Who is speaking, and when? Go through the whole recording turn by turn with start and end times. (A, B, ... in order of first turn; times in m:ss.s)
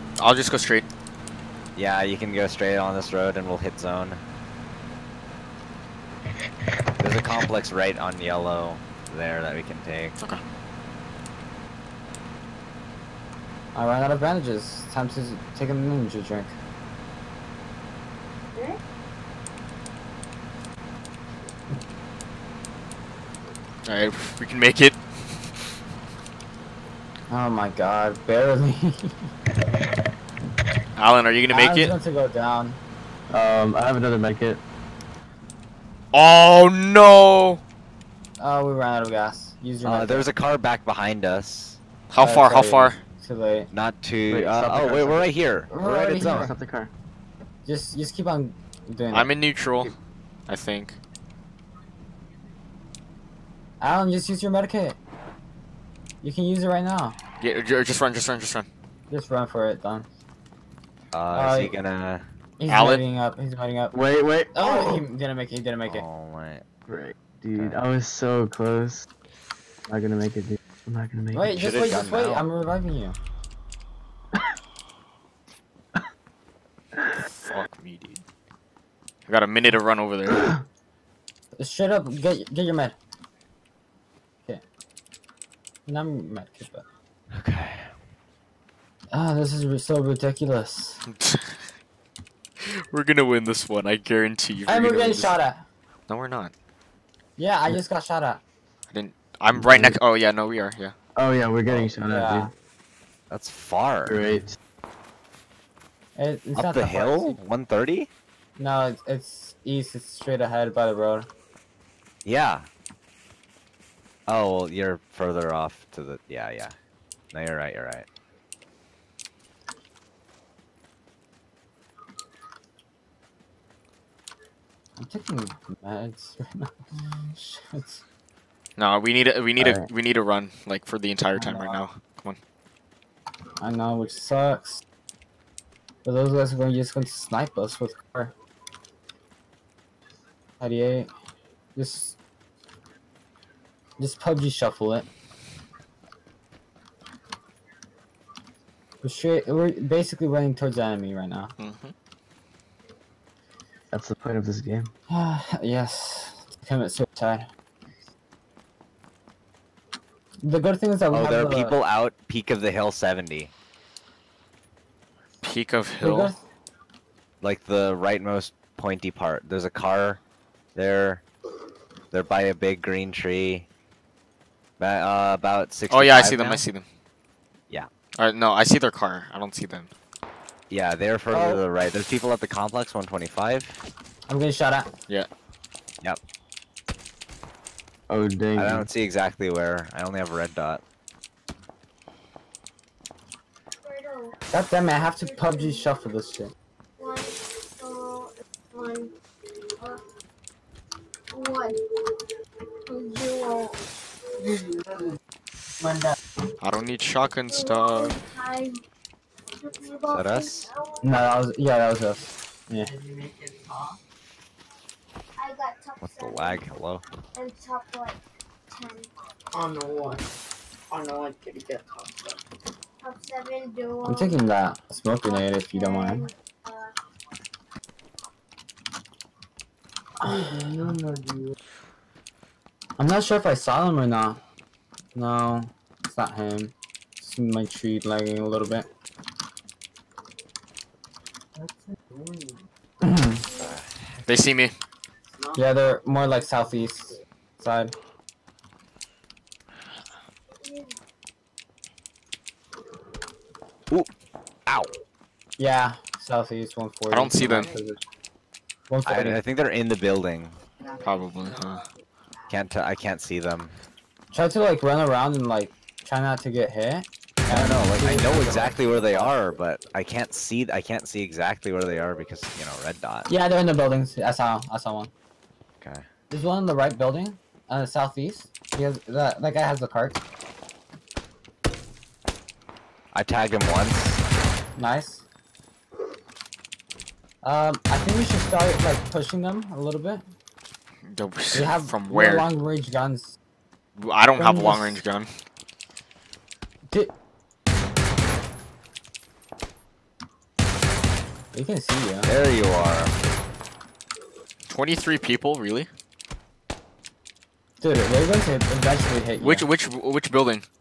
0:00.2-0:00.9 A
0:01.7-0:04.2 B
0:07.0-0:10.2 B
0:13.7-0:16.5 C
0:23.8-0:25.0 A
0:27.3-0:29.3 C
0:31.0-0:31.9 A
0:31.5-0:32.8 C
0:33.3-0:34.6 D
0:36.1-0:37.6 A
0:38.4-0:40.3 C
0:39.8-0:41.8 B
0:42.1-0:43.0 A
0:42.2-0:43.7 C
0:43.7-0:46.5 B
0:44.3-0:46.9 D
0:45.7-0:46.5 C
0:47.6-0:49.3 C
0:49.1-0:49.9 A
0:50.5-0:51.0 A
0:53.8-0:55.0 C
0:56.2-0:57.2 C
0:57.4-0:58.7 A
0:59.1-1:00.1 C
1:01.1-1:02.2 B
1:01.3-1:01.7 C
1:02.6-1:04.0 C
1:02.7-1:03.0 A
1:03.9-1:05.0 D
1:04.5-1:06.0 C
1:05.8-1:06.6 B
1:06.9-1:09.0 D
1:07.5-1:07.8 B
1:09.9-1:11.6 D
1:11.3-1:13.2 C
1:11.5-1:12.4 B
1:17.4-1:18.2 A
1:19.3-1:20.5 A
1:21.6-1:22.9 C
1:25.9-1:26.8 C
1:27.3-1:27.9 B
1:29.1-1:31.0 C
1:31.1-1:31.6 A
1:32.6-1:35.3 A
1:34.7-1:35.6 C
1:36.1-1:36.5 A
1:37.4-1:38.4 C
1:38.9-1:40.9 A
1:39.5-1:40.0 D
1:41.2-1:42.5 D
1:42.1-1:42.5 C
1:43.3-1:44.2 B
1:44.0-1:44.6 D
1:46.2-1:47.4 C
1:46.5-1:48.1 B
1:48.6-1:51.3 C
1:52.2-1:52.7 B
1:54.3-1:56.7 B
1:57.3-1:58.1 B
2:05.0-2:06.7 C
2:07.3-2:08.0 C
2:08.8-2:12.4 A
2:09.6-2:09.9 D
2:11.4-2:11.8 C
2:13.6-2:14.8 C
2:16.0-2:18.3 C
2:20.6-2:21.1 C
2:21.8-2:22.2 C
2:24.0-2:25.1 C
2:29.0-2:31.5 C
2:31.6-2:31.9 A
2:33.9-2:34.9 D
2:35.1-2:37.5 C
2:40.4-2:41.8 C
2:41.1-2:43.5 B
2:45.4-2:46.3 A
2:46.0-2:46.4 C
2:47.4-2:50.2 B
2:50.7-2:51.2 B
2:52.1-2:53.7 B
2:54.8-2:56.6 B
2:55.9-2:56.8 A
2:58.2-2:59.9 A
3:00.7-3:03.8 B
3:01.3-3:01.6 C
3:04.3-3:04.9 C
3:08.1-3:08.9 D
3:08.5-3:10.8 B
3:13.8-3:14.4 E
3:14.5-3:16.5 C
3:15.2-3:15.9 E
3:17.0-3:19.1 E
3:19.8-3:20.0 E
3:21.3-3:21.8 E
3:22.9-3:23.8 E
3:24.4-3:25.2 F
3:25.8-3:26.2 F
3:26.6-3:28.2 A
3:27.5-3:28.8 E
3:29.6-3:31.2 E
3:30.1-3:30.7 B
3:31.0-3:32.9 C
3:32.8-3:34.0 F
3:35.4-3:36.7 E
3:36.0-3:37.0 B
3:37.3-3:39.1 E
3:39.5-3:40.3 F
3:40.9-3:42.4 F
3:43.0-3:44.5 E
3:44.0-3:46.3 C
3:45.2-3:46.9 E
3:50.2-3:51.5 F
3:50.2-3:50.5 C
3:53.0-3:54.4 C
3:55.1-3:58.9 C
4:01.6-4:02.6 F
4:03.0-4:03.4 C
4:03.6-4:03.9 B
4:04.2-4:04.7 A
4:05.4-4:05.7 F
4:05.5-4:07.9 C
4:10.6-4:10.9 E
4:15.6-4:18.0 C
4:17.1-4:17.7 A
4:17.4-4:17.8 F
4:18.9-4:19.4 C
4:19.0-4:20.6 B
4:20.8-4:22.6 F
4:21.0-4:21.8 A
4:22.5-4:23.8 B
4:24.3-4:29.3 C
4:27.4-4:33.3 B
4:33.3-4:35.1 C
4:35.8-4:36.0 B
4:36.3-4:40.2 C
4:43.1-4:44.2 B
4:44.8-4:45.2 C
4:47.4-4:50.2 C
4:51.1-4:52.5 A
4:51.5-4:53.4 C
4:54.0-4:55.3 A
4:54.4-4:55.0 C
5:01.5-5:02.3 C
5:02.2-5:03.1 B
5:04.7-5:05.9 A
5:07.8-5:09.7 C
5:09.4-5:10.6 A